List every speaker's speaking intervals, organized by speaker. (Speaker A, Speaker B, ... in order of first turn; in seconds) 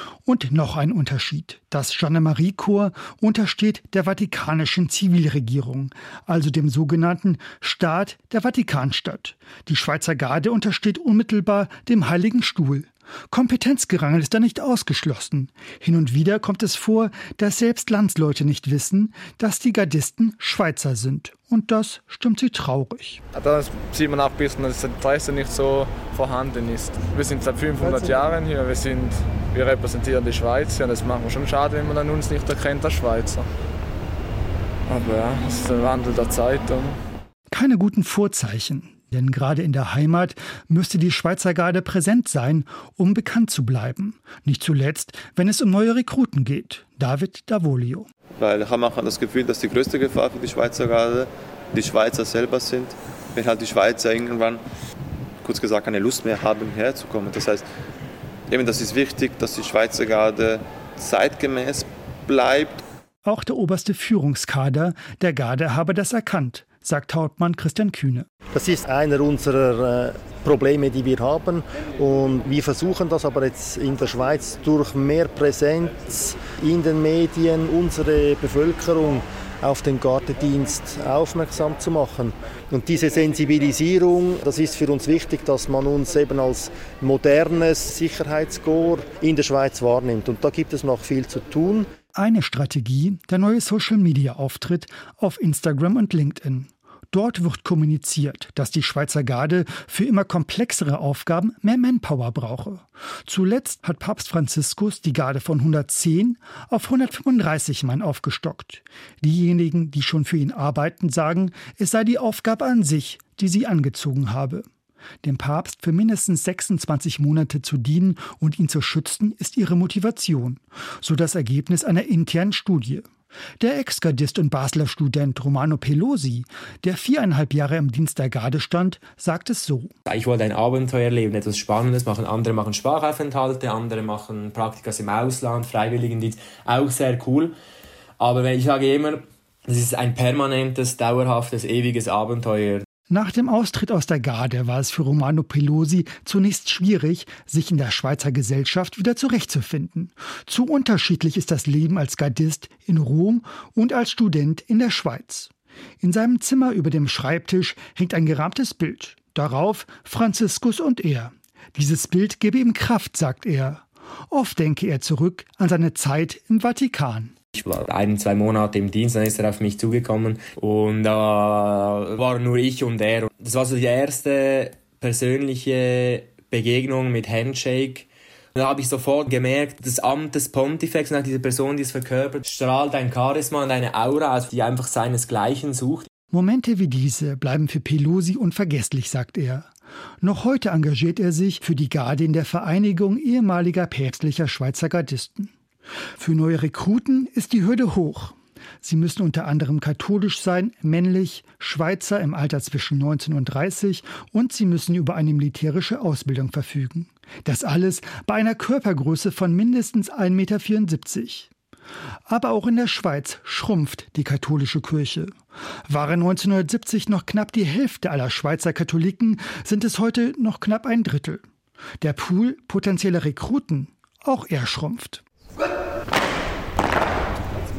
Speaker A: 0.2-23.2, 37.5-48.1, 63.2-68.3, 92.1-114.7, 115.2-123.1, 123.6-129.9, 143.1-167.3, 186.3-189.7, 190.2-195.5, 196.2-211.5, 212.3-215.3, 215.9-221.4, 222.0-225.2
Speaker B: 23.4-33.5, 34.9-36.9
Speaker C: 27.8-28.3, 68.5-91.9
Speaker D: 48.4-54.6, 55.4-57.6, 58.5-62.8
Speaker E: 130.1-137.5, 138.2-142.8, 167.5-186.1